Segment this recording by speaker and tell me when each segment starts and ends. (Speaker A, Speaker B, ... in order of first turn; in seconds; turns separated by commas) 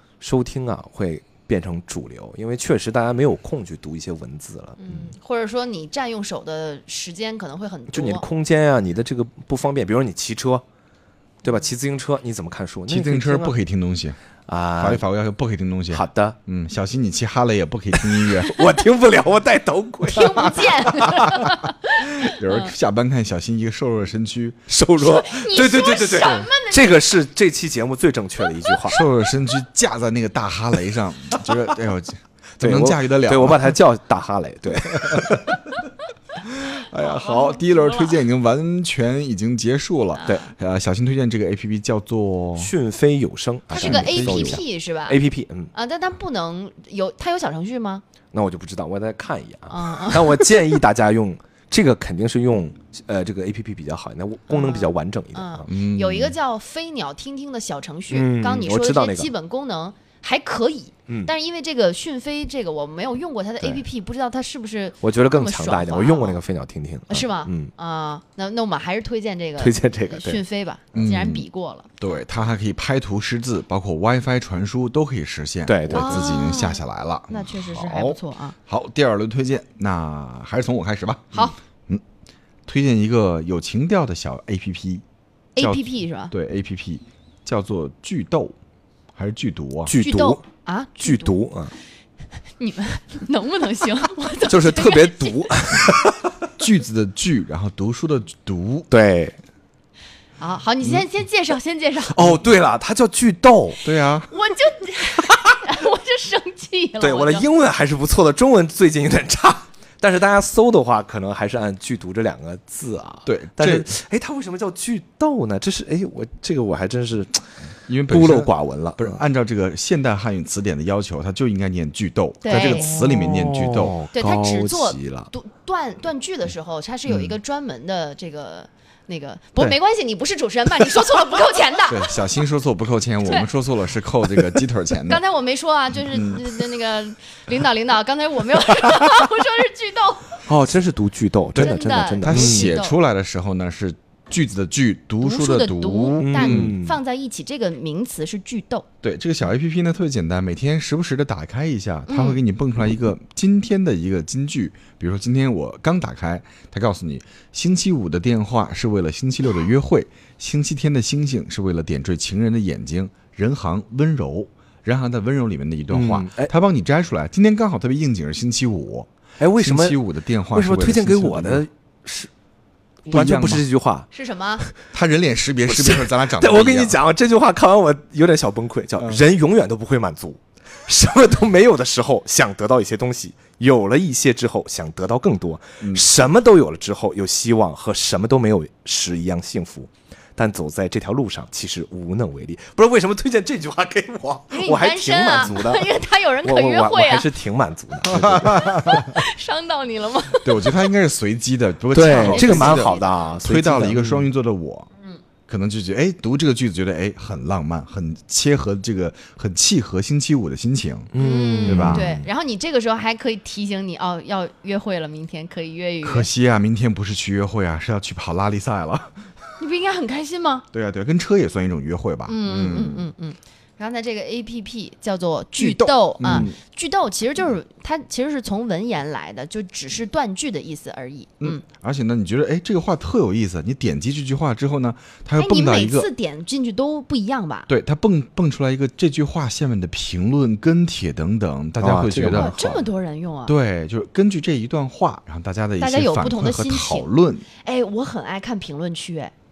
Speaker A: 0.2-4.9, Speaker B: 4.8-8.3, Speaker A: 7.9-10.6, Speaker A: 11.4-13.6, Speaker C: 12.9-14.2, Speaker A: 14.5-15.0, Speaker C: 14.8-18.5, Speaker A: 15.9-16.4, Speaker A: 18.0-21.5, Speaker B: 20.1-22.7, Speaker C: 22.0-24.7, Speaker A: 24.7-29.0, Speaker B: 25.0-27.0, Speaker C: 28.9-33.8, Speaker A: 32.6-35.6, Speaker C: 34.9-35.2, Speaker C: 36.4-42.7, Speaker B: 37.0-38.2, Speaker B: 40.2-40.4, Speaker A: 42.6-45.7, Speaker C: 43.7-44.6, Speaker B: 43.7-45.2, Speaker B: 45.7-48.0, Speaker A: 48.3-55.7, Speaker B: 49.7-50.4, Speaker B: 54.5-66.4, Speaker C: 55.7-56.4, Speaker A: 58.1-59.3, Speaker A: 65.0-67.7, Speaker B: 67.1-71.9, Speaker A: 69.6-70.4, Speaker C: 70.9-71.4, Speaker C: 72.0-78.1, Speaker A: 75.7-76.3, Speaker B: 75.9-78.6, Speaker A: 77.8-78.1, Speaker C: 78.7-82.0, Speaker C: 82.7-85.0, Speaker B: 85.6-86.3, Speaker C: 85.6-88.5, Speaker C: 89.1-89.9, Speaker A: 89.9-90.4, Speaker B: 89.9-91.4, Speaker A: 91.0-91.7, Speaker B: 92.6-95.5, Speaker A: 94.5-96.3, Speaker C: 96.6-98.9, Speaker A: 98.9-99.4, Speaker B: 100.4-102.3, Speaker A: 102.1-103.8, Speaker C: 103.8-104.3, Speaker B: 104.3-107.5, Speaker A: 107.0-117.5, Speaker C: 113.3-113.9, Speaker C: 117.9-124.0, Speaker A: 118.1-119.2, Speaker B: 122.4-122.9, Speaker A: 122.5-125.3, Speaker B: 124.1-132.2, Speaker C: 131.9-135.2, Speaker B: 135.1-140.4, Speaker C: 136.1-136.4, Speaker A: 140.4-142.7, Speaker C: 141.5-146.8, Speaker B: 141.6-142.9, Speaker B: 145.2-148.9, Speaker A: 146.2-147.0, Speaker C: 149.0-171.6, Speaker B: 152.1-152.4, Speaker A: 165.9-166.5, Speaker A: 169.4-172.3, Speaker A: 173.0-174.1, Speaker C: 173.1-173.6, Speaker B: 174.1-174.7, Speaker C: 174.9-177.0, Speaker A: 175.7-195.9, Speaker B: 194.5-197.3, Speaker A: 196.4-198.9, Speaker C: 198.1-199.1, Speaker B: 198.8-200.9, Speaker C: 200.4-204.9, Speaker A: 201.9-204.3, Speaker B: 202.0-203.1, Speaker C: 205.5-211.1, Speaker A: 211.1-212.3, Speaker B: 211.2-216.3, Speaker C: 211.7-212.1, Speaker C: 216.0-219.1, Speaker B: 219.6-220.7, Speaker C: 220.7-223.1, Speaker B: 222.3-231.6, Speaker C: 225.6-226.6, Speaker A: 226.2-226.5, Speaker C: 231.4-236.1, Speaker B: 235.4-237.7, Speaker C: 237.7-242.9, Speaker A: 241.8-242.8, Speaker B: 242.3-243.6, Speaker C: 243.4-247.4, Speaker B: 245.8-249.3